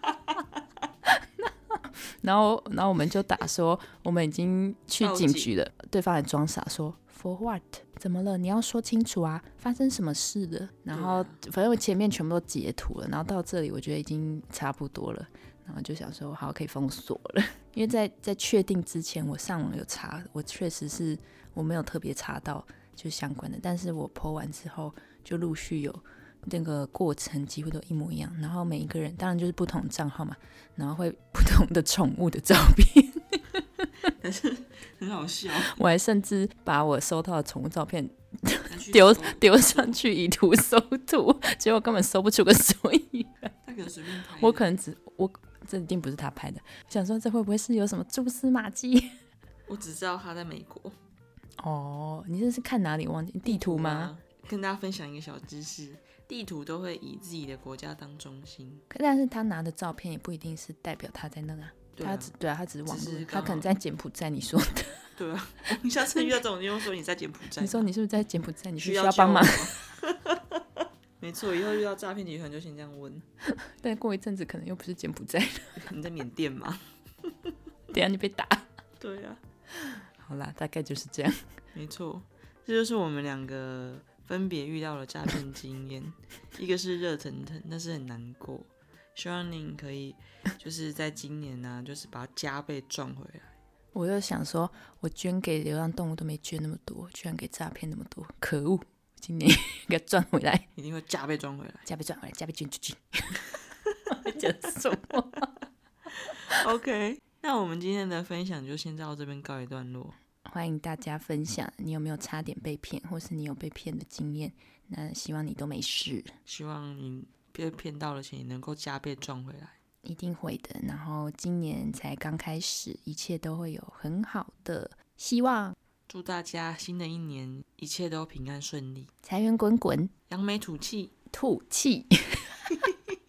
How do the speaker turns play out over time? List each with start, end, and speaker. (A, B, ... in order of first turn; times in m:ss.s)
0:01.0-0:33.9 A
0:05.0-0:05.5 B
0:10.9-0:11.4 B
0:34.2-0:35.8 B
0:35.7-0:43.5 A
0:38.7-0:40.0 B
0:43.6-0:44.6 B
0:44.4-0:49.1 A
0:49.7-0:51.0 B
0:51.6-0:54.1 A
0:53.4-0:58.8 B
0:58.9-1:05.1 A
1:02.0-1:02.3 B
1:02.8-1:03.7 B
1:05.2-1:07.9 B
1:07.6-1:09.7 A
1:08.8-1:13.2 B
1:13.5-1:15.9 A
1:15.8-1:17.5 B
1:17.9-1:18.7 A
1:19.0-1:19.4 B
1:19.8-1:21.4 A
1:21.7-1:33.5 B
1:33.9-1:40.7 A
1:40.8-1:41.8 B
1:41.8-1:43.4 A
1:44.1-1:45.5 A
1:46.2-1:50.2 B
1:50.4-1:56.4 A
1:56.5-1:59.8 B
2:00.0-2:05.8 A
2:06.1-2:09.1 B
2:09.2-2:10.1 A
2:10.3-2:11.1 B
2:11.3-2:12.7 A